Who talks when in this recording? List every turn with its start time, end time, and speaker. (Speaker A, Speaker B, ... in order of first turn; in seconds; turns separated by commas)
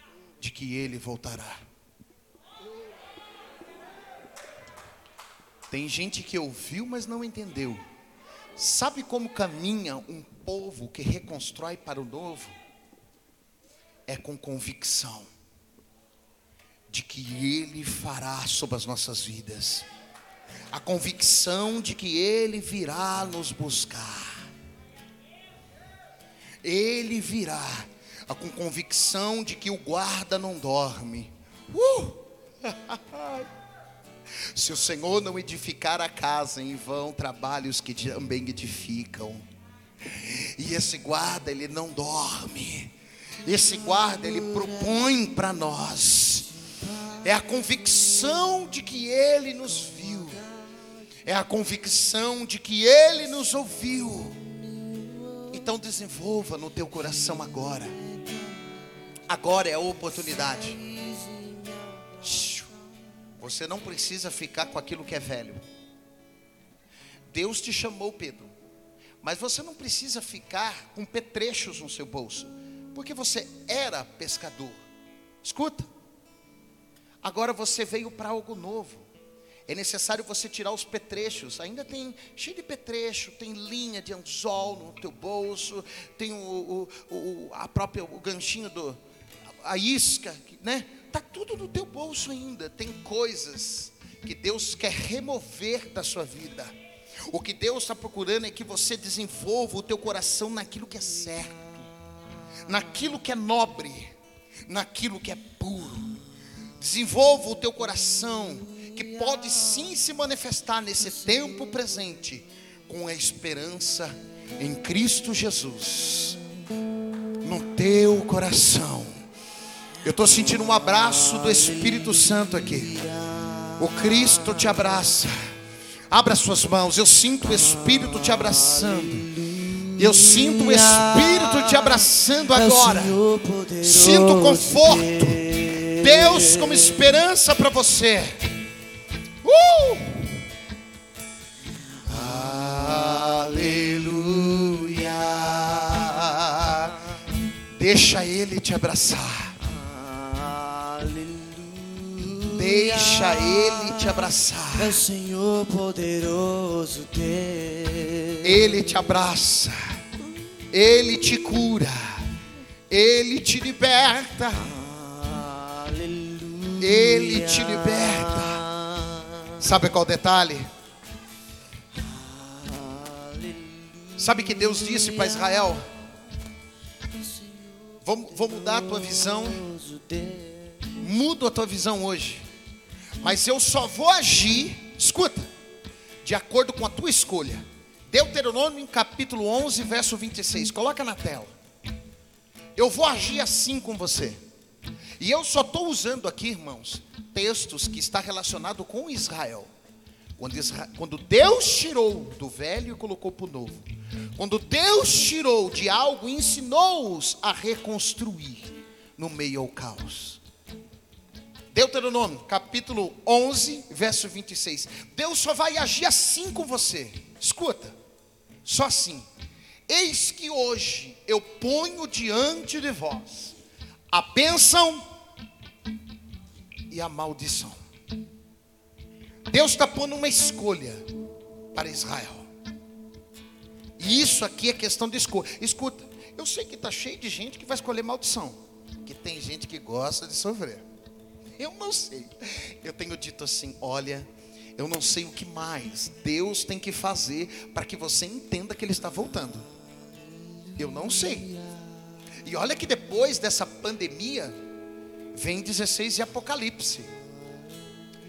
Speaker A: 0.4-1.6, Speaker A: 5.7-7.8, Speaker A: 8.6-12.5, Speaker A: 14.1-15.3, Speaker A: 16.9-19.9, Speaker A: 20.7-24.5, Speaker A: 26.6-33.5, Speaker A: 34.5-39.4, Speaker A: 40.1-42.9, Speaker A: 43.4-46.5, Speaker B: 46.9-47.2, Speaker A: 47.2-50.4, Speaker A: 51.2-54.4, Speaker B: 54.8-55.5, Speaker A: 55.5-58.0, Speaker B: 58.2-58.6, Speaker A: 59.3-60.8, Speaker B: 60.5-62.3, Speaker A: 62.2-62.7, Speaker A: 63.4-65.6, Speaker A: 67.3-68.5, Speaker A: 69.2-74.8, Speaker A: 75.4-75.9, Speaker A: 77.2-79.1, Speaker A: 79.7-89.0, Speaker A: 89.6-96.7, Speaker A: 97.3-101.9, Speaker A: 102.7-104.2, Speaker A: 104.7-106.1, Speaker A: 106.8-116.4, Speaker A: 117.4-119.2, Speaker A: 120.0-123.0, Speaker B: 121.4-124.8, Speaker A: 123.8-125.5, Speaker A: 126.1-129.3, Speaker B: 127.8-137.0, Speaker A: 130.0-133.2, Speaker A: 133.8-138.4, Speaker A: 139.4-140.3, Speaker A: 142.1-147.0, Speaker A: 147.8-149.6, Speaker B: 149.6-158.9, Speaker A: 152.5-155.0, Speaker A: 158.4-160.0, Speaker A: 160.7-162.3, Speaker A: 162.9-164.8, Speaker B: 164.7-169.6, Speaker A: 166.8-168.6, Speaker A: 169.6-170.7, Speaker B: 171.9-175.7, Speaker A: 174.2-175.9, Speaker B: 177.1-180.9, Speaker A: 178.0-179.6, Speaker A: 181.0-182.5, Speaker A: 183.2-185.5, Speaker A: 186.2-191.5, Speaker A: 192.8-194.4, Speaker A: 195.2-199.7, Speaker A: 200.4-203.8, Speaker A: 204.4-210.4, Speaker A: 211.7-217.9, Speaker A: 218.7-219.3, Speaker A: 219.9-223.6, Speaker A: 224.1-225.0, Speaker A: 226.9-227.8, Speaker A: 229.5-231.0, Speaker A: 231.7-232.5, Speaker A: 234.0-240.8, Speaker A: 241.6-249.7, Speaker A: 250.8-251.5, Speaker A: 252.4-254.6, Speaker A: 255.3-257.1